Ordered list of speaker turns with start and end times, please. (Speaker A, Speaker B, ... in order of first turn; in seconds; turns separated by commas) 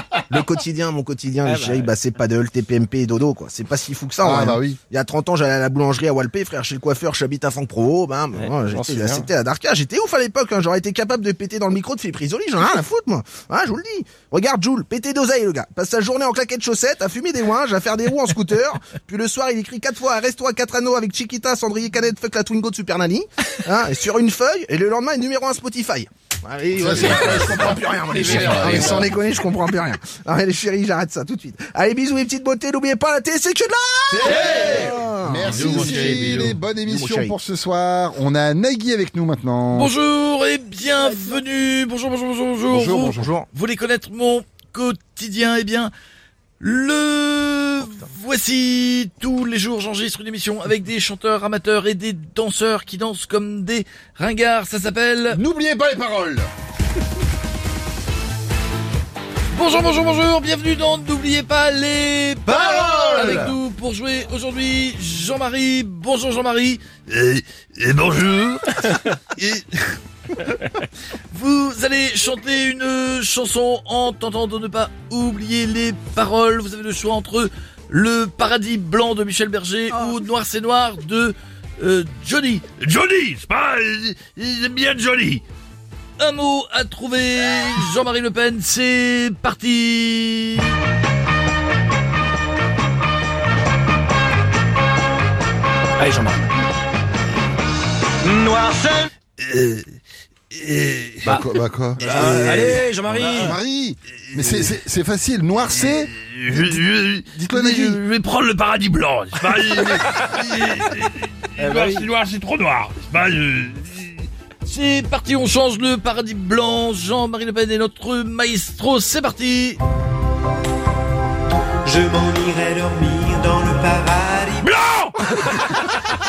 Speaker A: 0.3-37.4, Speaker B: 1.4-1.9, Speaker C: 4.2-4.8, Speaker C: 8.5-9.3, Speaker C: 26.8-29.1, Speaker D: 27.0-27.5, Speaker D: 28.1-29.1, Speaker D: 34.2-34.9, Speaker C: 34.3-39.9, Speaker D: 35.5-36.6, Speaker D: 39.7-45.9, Speaker C: 42.7-43.3, Speaker A: 43.0-43.5, Speaker D: 46.6-55.4, Speaker C: 55.3-56.5, Speaker D: 59.5-70.5, Speaker C: 62.5-63.5, Speaker A: 62.7-63.5, Speaker D: 71.3-85.4, Speaker D: 86.2-90.8, Speaker B: 96.0-96.4, Speaker B: 98.2-99.1, Speaker D: 99.4-99.8, Speaker D: 100.5-101.4, Speaker C: 101.2-106.6, Speaker D: 102.0-103.3, Speaker B: 102.0-103.6, Speaker D: 104.3-104.7, Speaker D: 105.7-119.8, Speaker C: 107.3-108.0, Speaker B: 111.6-112.1, Speaker E: 121.8-124.7, Speaker D: 124.6-125.7